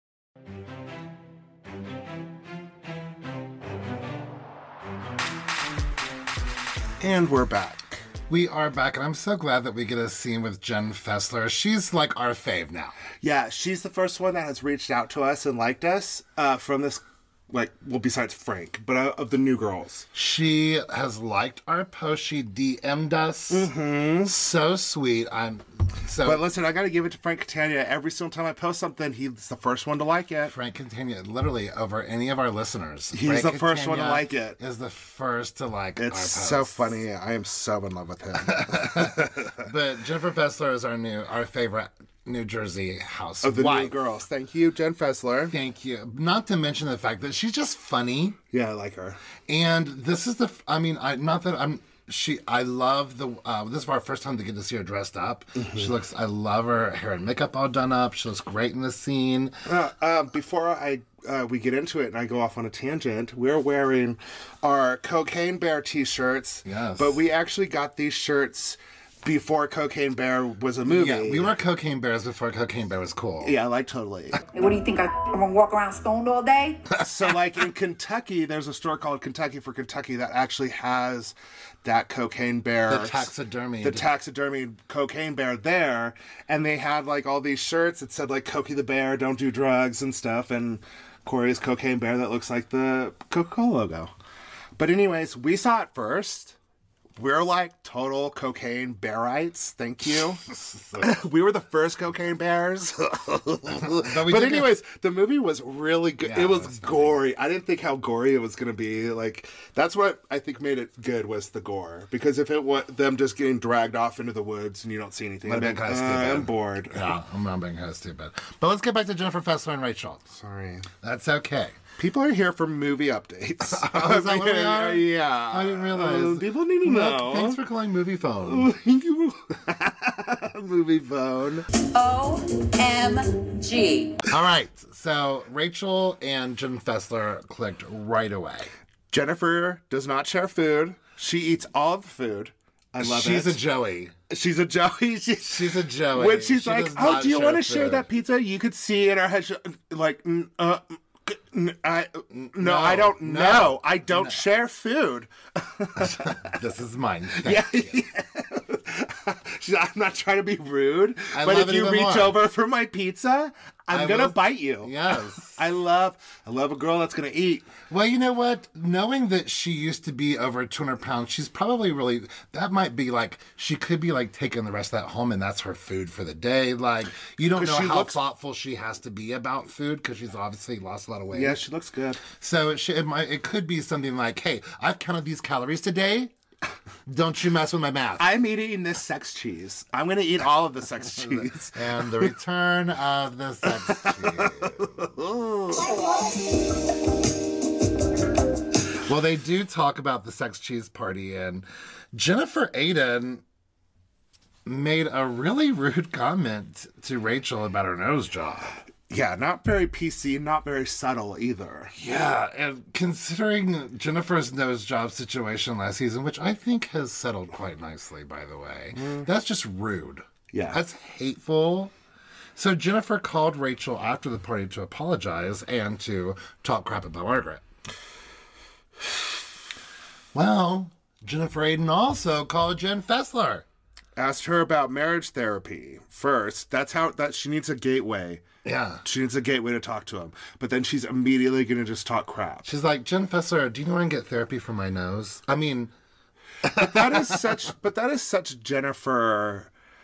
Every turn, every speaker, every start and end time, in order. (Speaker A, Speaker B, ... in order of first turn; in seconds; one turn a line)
Speaker A: 7.0-8.0
Speaker B: 8.3-13.0
Speaker A: 13.2-20.1
Speaker B: 20.1-23.7
Speaker A: 23.5-24.4
Speaker B: 24.3-26.5
Speaker A: 26.2-30.5
Speaker B: 30.5-36.9
Speaker A: 33.1-34.6
Speaker A: 36.0-39.6
Speaker B: 38.5-44.0
Speaker A: 43.4-45.5
Speaker B: 45.5-48.4
Speaker A: 48.5-49.2
Speaker B: 49.5-59.6
Speaker A: 55.6-55.9
Speaker A: 59.7-71.5
Speaker B: 66.7-67.2
Speaker B: 70.9-73.5
Speaker A: 73.4-74.4
Speaker C: 74.5-76.8
Speaker A: 77.0-83.3
Speaker B: 82.9-84.1
Speaker A: 83.8-94.1
Speaker A: 94.8-96.6
Speaker A: 97.2-100.4
Speaker B: 100.5-101.1
Speaker A: 101.0-117.2
Speaker B: 103.8-104.7
Speaker B: 106.2-107.2
Speaker B: 115.5-120.3
Speaker A: 120.3-120.9
Speaker B: 121.0-121.8
Speaker A: 122.0-127.6
Speaker B: 123.7-128.7
Speaker A: 128.4-131.7
Speaker C: 131.9-134.2
Speaker B: 134.3-138.7
Speaker A: 139.1-143.6
Speaker B: 143.0-144.1
Speaker A: 144.3-156.5
Speaker B: 145.5-148.1
Speaker B: 152.3-154.4
Speaker B: 156.0-158.0
Speaker A: 157.4-167.7
Speaker B: 161.3-162.4
Speaker B: 163.9-165.6
Speaker B: 167.9-181.6
Speaker A: 177.6-178.2
Speaker A: 181.3-182.2
Speaker B: 182.3-186.3
Speaker B: 187.1-188.3
Speaker A: 188.2-192.3
Speaker B: 191.7-195.1
Speaker A: 193.7-195.9
Speaker B: 199.0-203.4
Speaker B: 204.7-208.8
Speaker A: 209.1-211.9
Speaker B: 212.0-221.9
Speaker A: 218.9-219.3
Speaker A: 220.5-220.8
Speaker B: 222.6-227.6
Speaker B: 230.3-233.7
Speaker A: 234.2-238.4
Speaker B: 238.6-239.0
Speaker A: 239.0-242.7
Speaker B: 242.7-245.9
Speaker B: 246.7-247.5
Speaker A: 246.7-249.7